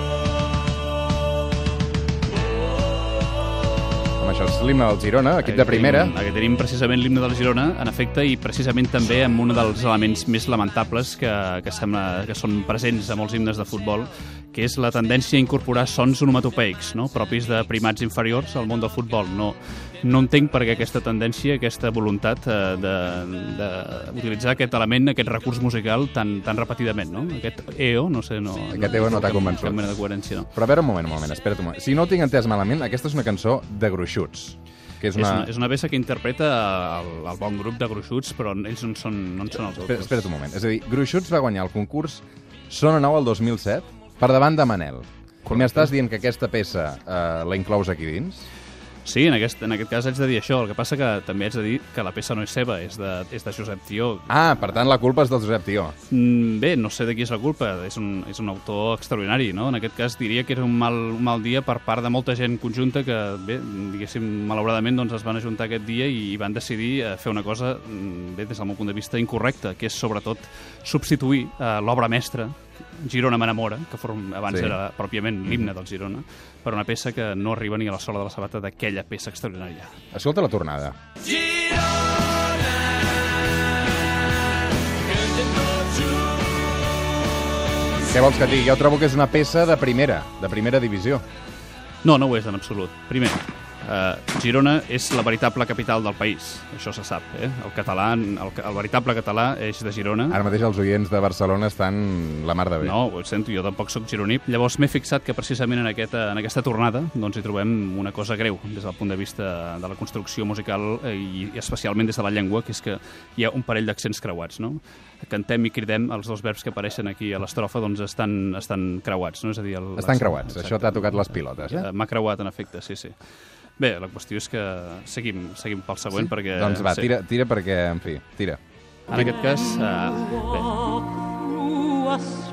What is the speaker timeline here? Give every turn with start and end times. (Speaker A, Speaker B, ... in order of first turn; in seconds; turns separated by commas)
Speaker A: 4.2-6.1, Speaker B: 5.4-30.5, Speaker A: 28.7-29.9, Speaker A: 30.5-35.5, Speaker B: 35.1-40.3, Speaker A: 39.7-48.5, Speaker B: 45.5-45.9, Speaker B: 49.0-54.4, Speaker A: 54.3-55.9, Speaker B: 56.1-80.0, Speaker A: 74.5-74.8, Speaker A: 80.1-81.0, Speaker A: 88.0-91.2, Speaker B: 92.0-100.4, Speaker A: 100.3-102.9, Speaker B: 102.8-127.1, Speaker A: 120.0-121.9, Speaker A: 126.1-128.6, Speaker B: 129.1-131.1